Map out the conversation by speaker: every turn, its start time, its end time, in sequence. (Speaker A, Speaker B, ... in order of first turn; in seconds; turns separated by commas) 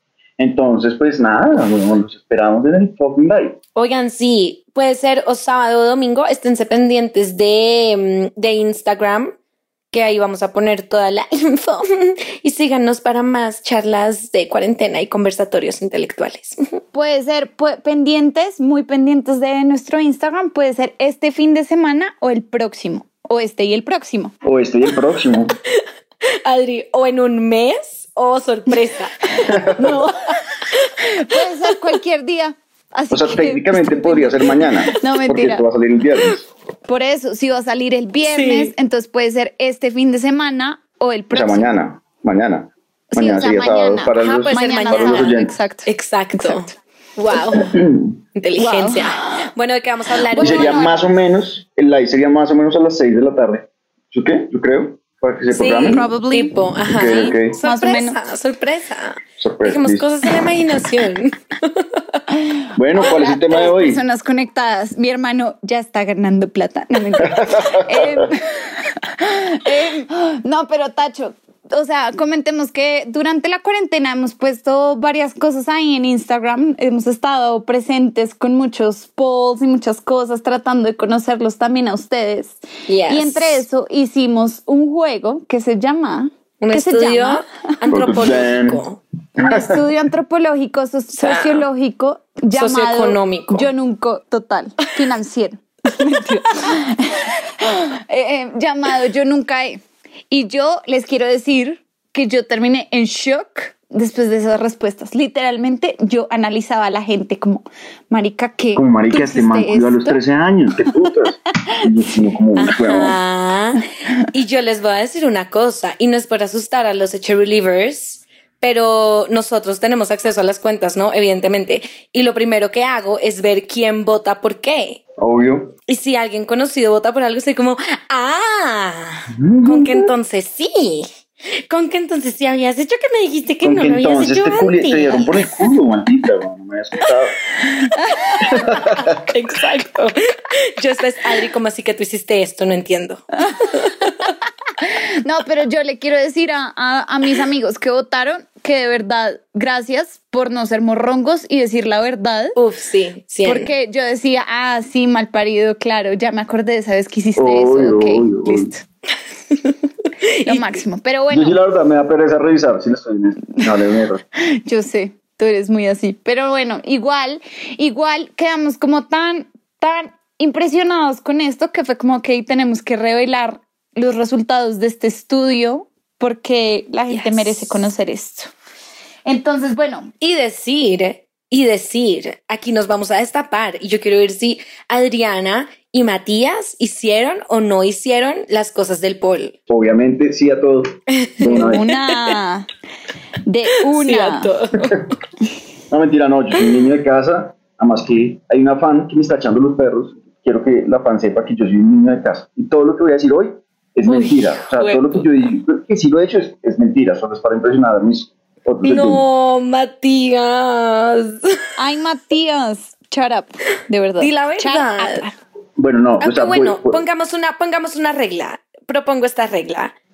Speaker A: 0.4-3.6, Speaker B: 3.8-9.3, Speaker B: 9.9-16.8, Speaker C: 16.9-24.3, Speaker A: 24.4-25.6, Speaker B: 26.4-30.1, Speaker C: 31.0-35.6, Speaker A: 33.1-36.5, Speaker C: 36.9-41.7, Speaker B: 38.2-38.7, Speaker A: 41.3-45.5, Speaker C: 43.1-46.7, Speaker B: 44.1-47.7, Speaker A: 47.5-48.2, Speaker B: 48.4-51.0, Speaker C: 48.6-49.5, Speaker C: 50.3-51.0, Speaker A: 50.4-56.1, Speaker B: 55.5-62.2, Speaker C: 55.9-56.6, Speaker A: 56.9-57.6, Speaker C: 57.1-58.2, Speaker A: 59.4-60.1, Speaker A: 62.8-64.0, Speaker C: 63.0-87.4, Speaker A: 67.2-68.2, Speaker B: 82.9-83.6, Speaker B: 86.6-89.0, Speaker A: 87.9-88.8, Speaker A: 89.4-89.8, Speaker C: 89.4-110.2, Speaker B: 91.2-91.7, Speaker B: 92.5-93.7, Speaker A: 108.7-113.2, Speaker B: 112.6-125.0, Speaker A: 125.2-125.7, Speaker B: 125.9-131.1, Speaker A: 129.3-130.1, Speaker B: 131.7-135.5, Speaker A: 133.6-137.4, Speaker C: 138.0-138.3, Speaker A: 138.4-139.2, Speaker B: 139.2-144.3, Speaker C: 143.5-152.6, Speaker B: 152.6-153.7, Speaker C: 153.4-158.8, Speaker A: 157.3-158.7, Speaker B: 160.4-160.8, Speaker C: 160.4-161.6, Speaker A: 161.3-164.2, Speaker C: 164.6-178.5, Speaker B: 177.1-177.9, Speaker C: 179.2-180.1, Speaker B: 180.2-189.6, Speaker A: 189.7-191.9, Speaker B: 191.2-192.4, Speaker C: 191.5-192.7, Speaker C: 193.4-194.5, Speaker B: 193.9-195.1, Speaker A: 195.9-209.2, Speaker B: 196.6-196.8, Speaker B: 204.1-205.2, Speaker B: 208.8-211.6, Speaker C: 211.8-215.4, Speaker B: 214.2-215.2, Speaker A: 215.8-217.0, Speaker B: 216.2-219.9